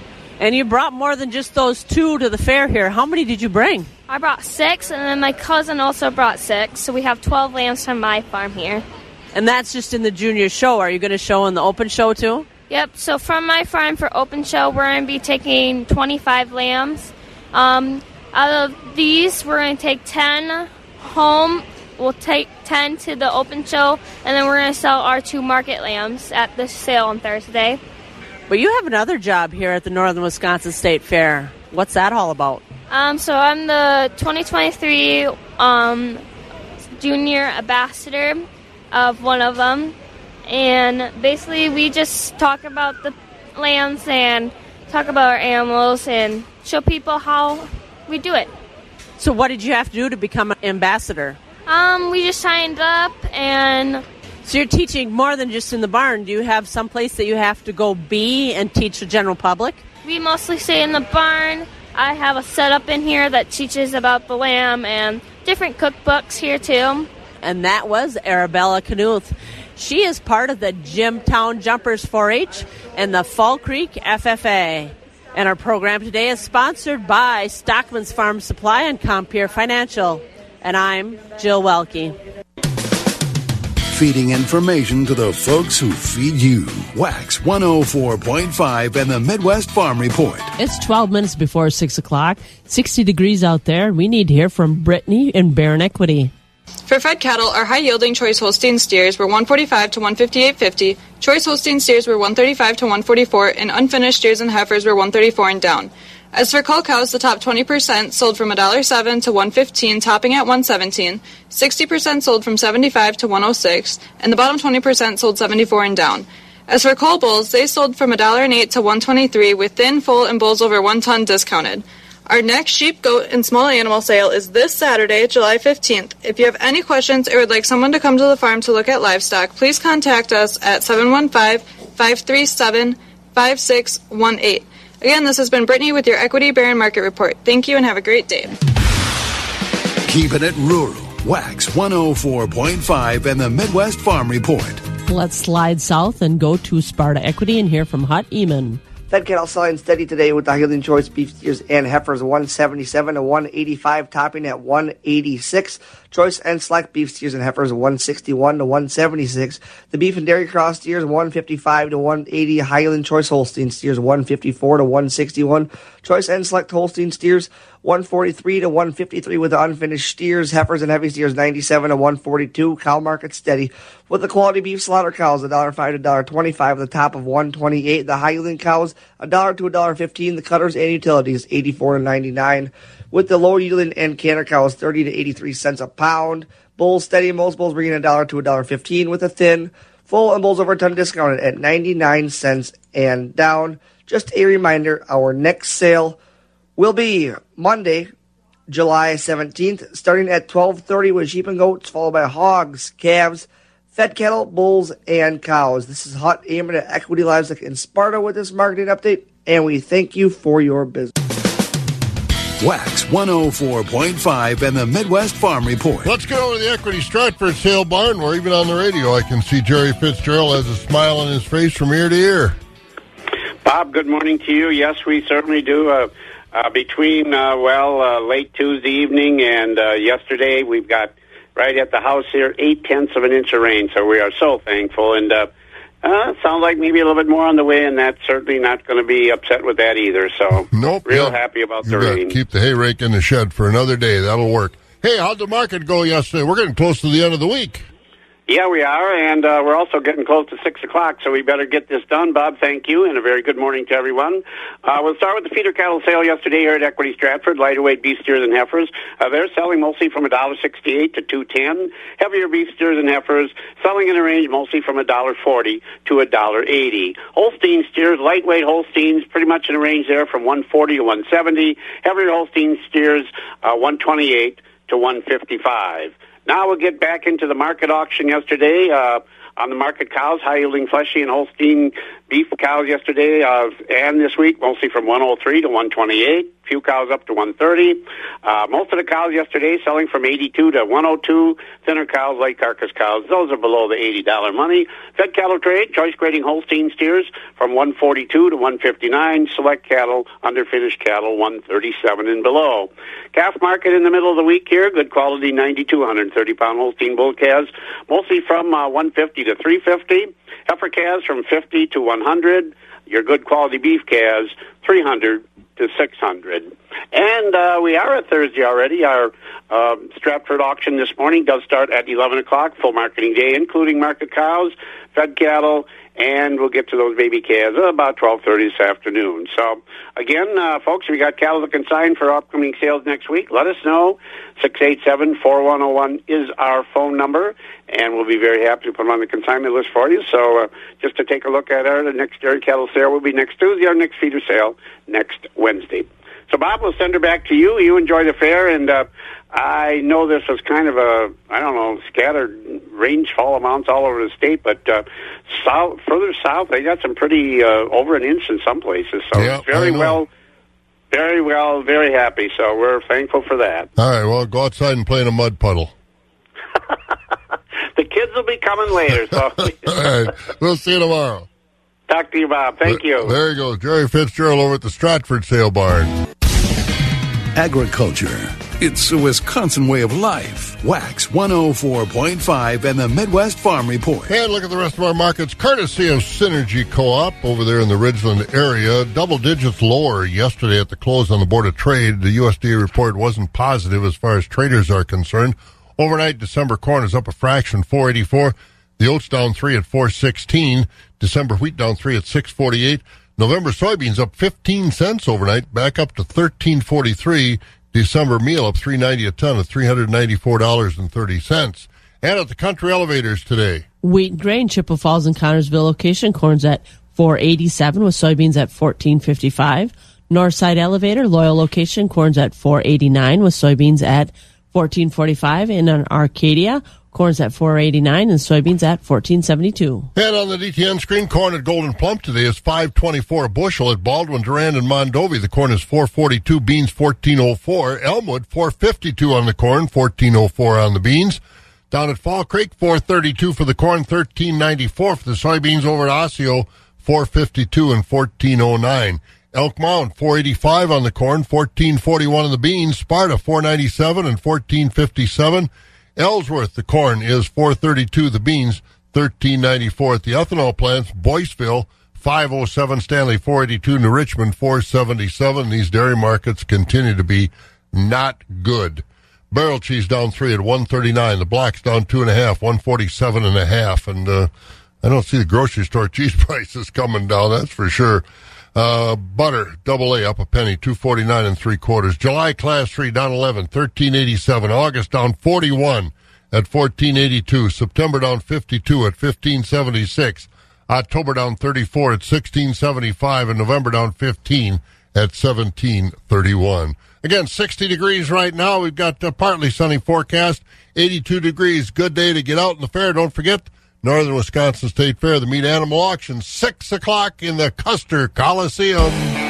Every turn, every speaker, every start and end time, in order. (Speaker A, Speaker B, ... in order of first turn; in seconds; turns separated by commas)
Speaker A: 0.4-3.9, Speaker B: 4.1-8.8, Speaker A: 9.3-12.4, Speaker B: 12.7-27.8, Speaker A: 28.5-32.6, Speaker B: 32.9-36.2, Speaker B: 37.0-39.9, Speaker B: 40.5-48.5, Speaker A: 49.2-51.4, Speaker B: 51.6-54.0, Speaker A: 54.4-59.8, Speaker B: 60.0-67.1, Speaker A: 67.4-82.2, Speaker C: 83.9-90.5, Speaker A: 90.6-96.3, Speaker D: 96.9-138.5, Speaker C: 140.1-144.8, Speaker A: 145.1-148.8, Speaker E: 149.1-196.2, Speaker E: 196.8-198.1, Speaker E: 198.7-211.1, Speaker C: 212.6-216.1, Speaker F: 216.0-222.6, Speaker G: 223.6-235.5, Speaker G: 236.0-242.3, Speaker F: 240.7-247.8, Speaker G: 248.5-360.3, Speaker F: 359.3-360.2, Speaker G: 361.1-363.9, Speaker F: 364.0-365.9, Speaker G: 367.9-369.9, Speaker F: 369.8-371.4, Speaker G: 372.1-373.3, Speaker F: 372.9-376.1, Speaker C: 377.6-384.3, Speaker F: 384.3-413.8, Speaker A: 414.0-430.1, Speaker F: 430.1-441.4, Speaker F: 441.9-474.5, Speaker F: 475.0-509.2